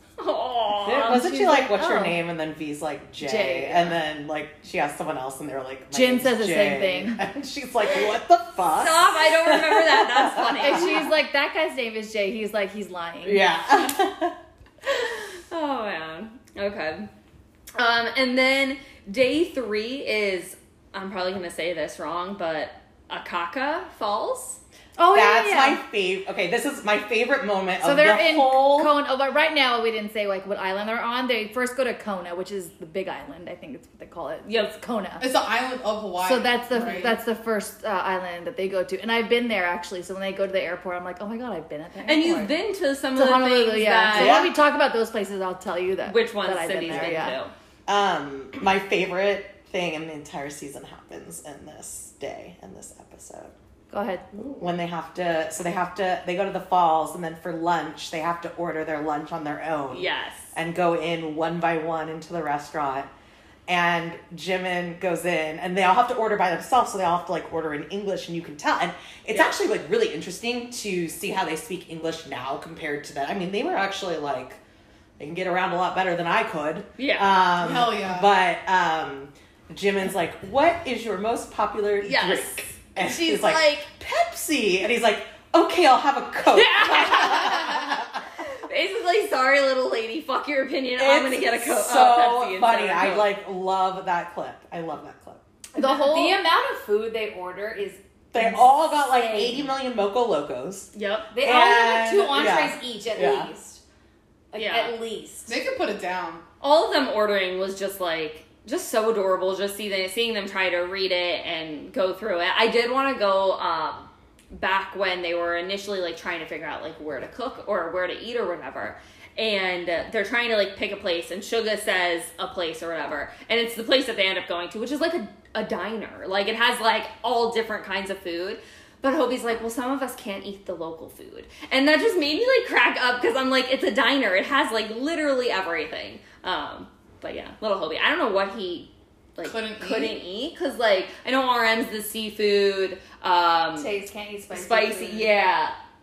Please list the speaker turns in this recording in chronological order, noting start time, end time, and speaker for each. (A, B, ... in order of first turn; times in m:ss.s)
0:00.2-0:01.4 A
0:00.7-0:11.0 B
0:01.1-0:02.2 C
0:03.2-0:04.0 C
0:05.9-0:07.2 C
0:08.7-0:11.1 A
0:10.6-0:13.5 C
0:13.2-0:14.4 B
0:14.8-0:17.1 A
0:17.8-0:24.6 A
0:25.0-0:25.8 C
0:25.1-0:28.9 B
0:27.8-0:35.2 C
0:34.5-0:34.7 A
0:35.2-0:37.2 D
0:36.2-0:42.6 C
0:42.0-0:44.5 A
0:43.2-0:47.4 C
0:44.1-0:44.6 B
0:46.1-0:47.5 A
0:46.9-0:47.3 B
0:47.9-0:53.5 B
0:53.9-0:54.3 C
0:54.5-1:03.1 B
0:59.9-1:00.5 A
1:03.7-1:14.6 B
1:09.3-1:09.6 A
1:15.2-1:28.2 B
1:17.0-1:17.4 A
1:17.6-1:18.3 D
1:22.0-1:23.9 A
1:26.5-1:28.0 A
1:28.6-1:33.3 A
1:31.0-1:35.4 B
1:35.8-1:36.4 A
1:35.8-1:39.7 C
1:38.3-1:43.5 B
1:40.9-1:41.3 A
1:41.3-1:43.8 C
1:44.5-1:45.6 C
1:44.6-1:45.0 A
1:45.5-1:46.4 D
1:46.6-2:23.9 A
2:19.4-2:20.2 D
2:23.8-2:25.3 C
2:24.5-2:25.7 A